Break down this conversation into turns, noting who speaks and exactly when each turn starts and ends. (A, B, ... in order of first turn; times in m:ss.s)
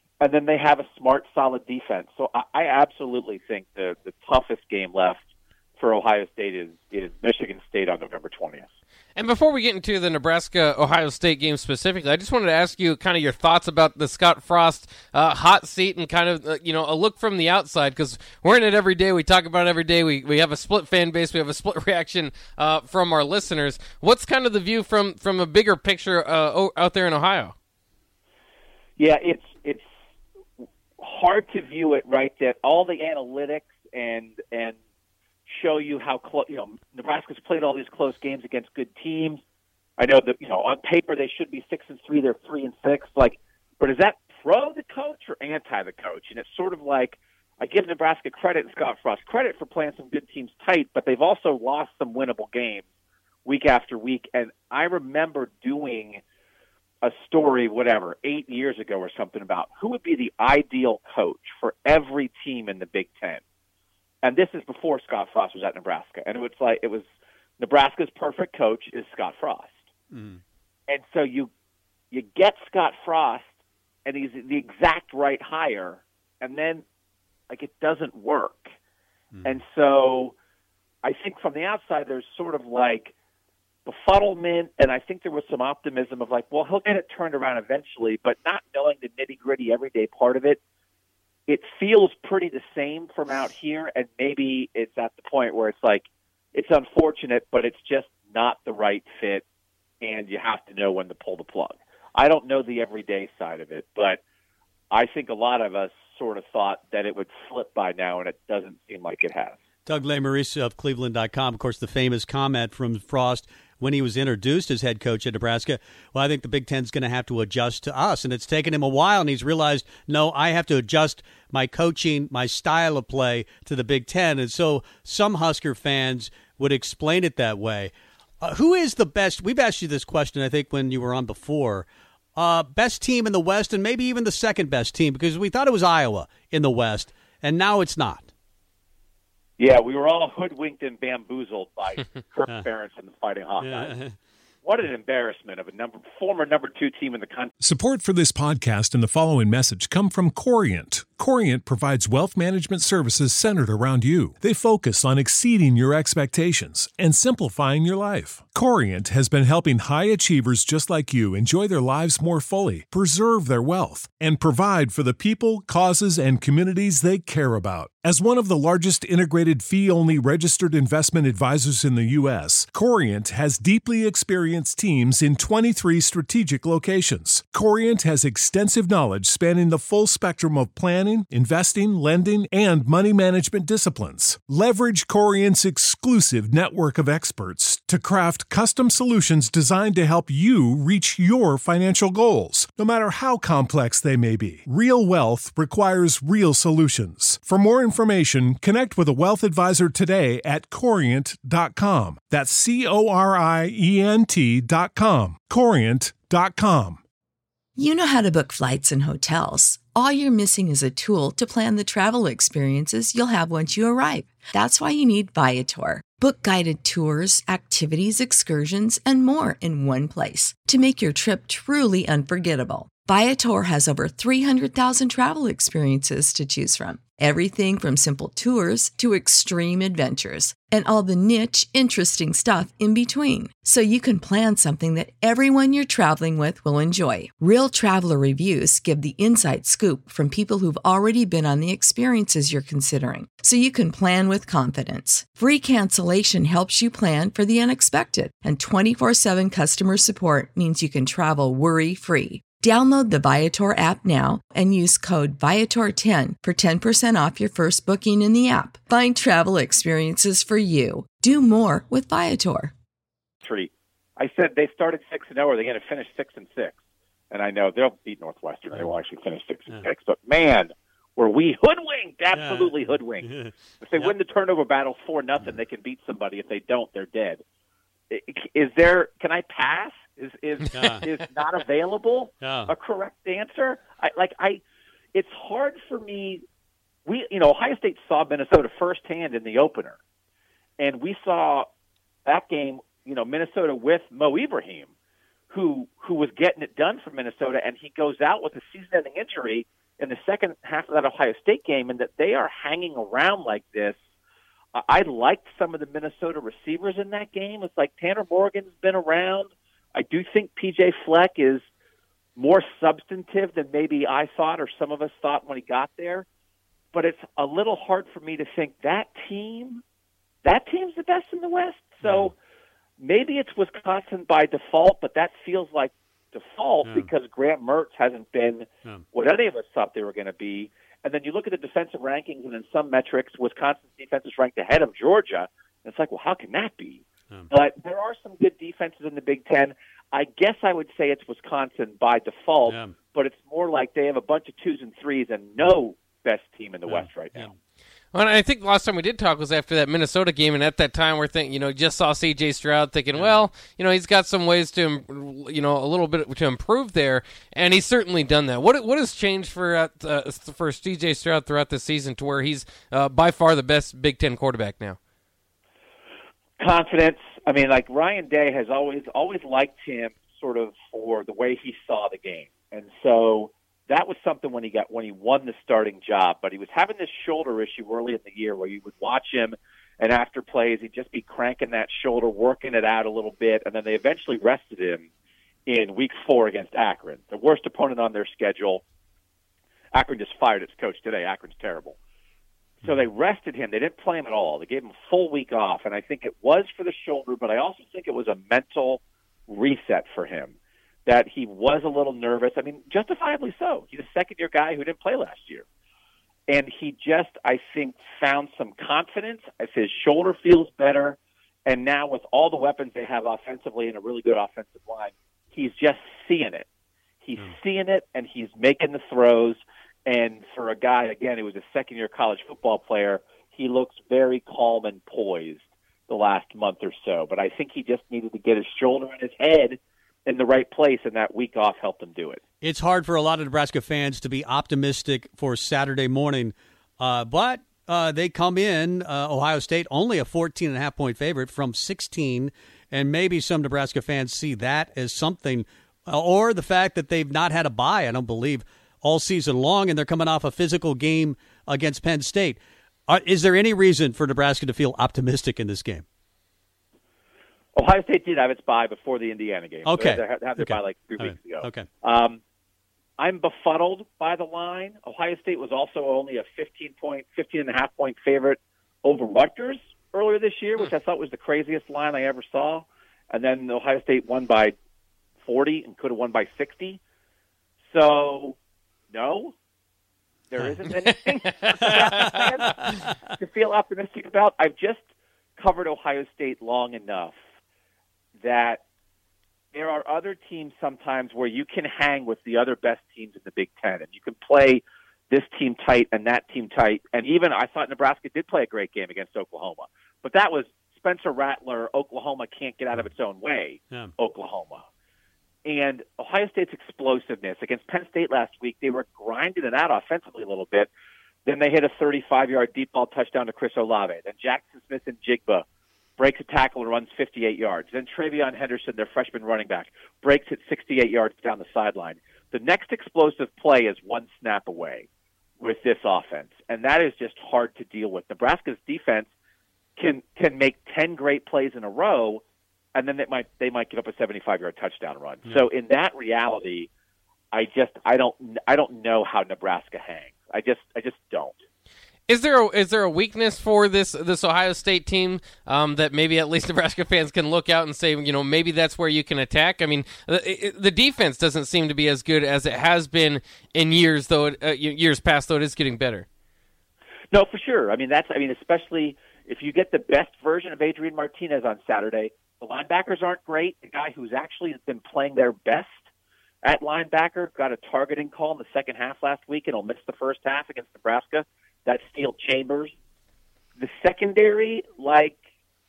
0:00.2-0:05.2 A
0:05.8-0:08.7 A
0:09.2-0:27.5 B
0:29.0-0:29.9 A
0:31.0-0:34.7 A
0:35.5-0:39.4 A
0:40.0-0:52.8 A
0:53.4-0:56.2 A
0:57.0-1:03.4 A
1:04.2-1:07.0 A
1:07.6-1:09.8 A
1:10.1-1:10.4 C
1:10.9-1:11.5 A
1:12.1-1:13.5 A
1:14.0-1:16.8 A
1:17.5-1:18.7 A
1:19.3-1:19.6 C
1:19.4-1:20.3 A
1:21.0-1:23.1 A
1:23.8-1:30.6 A
1:31.5-1:39.4 A
1:40.0-1:44.2 A
1:44.9-1:49.6 A
1:49.8-2:18.3 C
2:19.6-2:23.9 A
2:23.6-2:24.2 C
2:24.6-2:27.5 A
2:27.6-3:27.0 D
3:27.8-4:22.7 E
4:23.4-4:26.8 A
4:27.3-4:33.3 A
4:32.3-4:34.2 C
4:33.8-4:37.4 A
4:38.1-4:44.6 A
4:40.7-4:41.0 C
4:42.4-4:42.7 C
4:45.1-4:46.4 A
4:47.0-4:50.0 A
4:50.8-4:51.6 A
4:52.2-4:54.9 A
4:55.5-5:04.0 A
5:04.8-5:11.6 A
5:12.4-5:16.2 A
5:16.9-5:19.8 A
5:20.4-5:22.3 A
5:22.0-5:22.3 C
5:23.0-5:47.5 A
5:26.8-5:27.1 C
5:42.6-5:42.9 C
5:46.8-5:47.5 C
5:48.1-6:04.9 B
5:53.1-5:53.5 C
6:06.6-6:25.1 A
6:25.7-6:28.8 A
6:29.9-6:32.0 A
6:32.8-6:40.5 A
6:41.0-6:45.6 A
6:46.5-6:56.6 A
6:57.2-7:12.4 A
7:12.6-7:36.0 C
7:37.7-7:42.4 A
7:39.8-7:41.9 C
7:43.2-7:54.7 A
7:55.4-7:57.0 A
7:57.9-7:58.6 A
7:59.1-7:59.5 A
8:00.5-8:05.0 A
8:05.6-8:07.4 A
8:08.4-8:08.8 A
8:09.7-8:24.8 A
8:25.6-8:30.9 A
8:31.4-8:35.6 A
8:36.2-8:45.1 A
8:45.6-8:49.3 A
8:50.0-8:52.4 A
8:52.9-8:56.9 A
8:57.5-9:01.6 A
9:02.3-9:16.2 B
9:17.3-9:26.0 A
9:26.6-9:32.9 A
9:33.8-9:35.4 A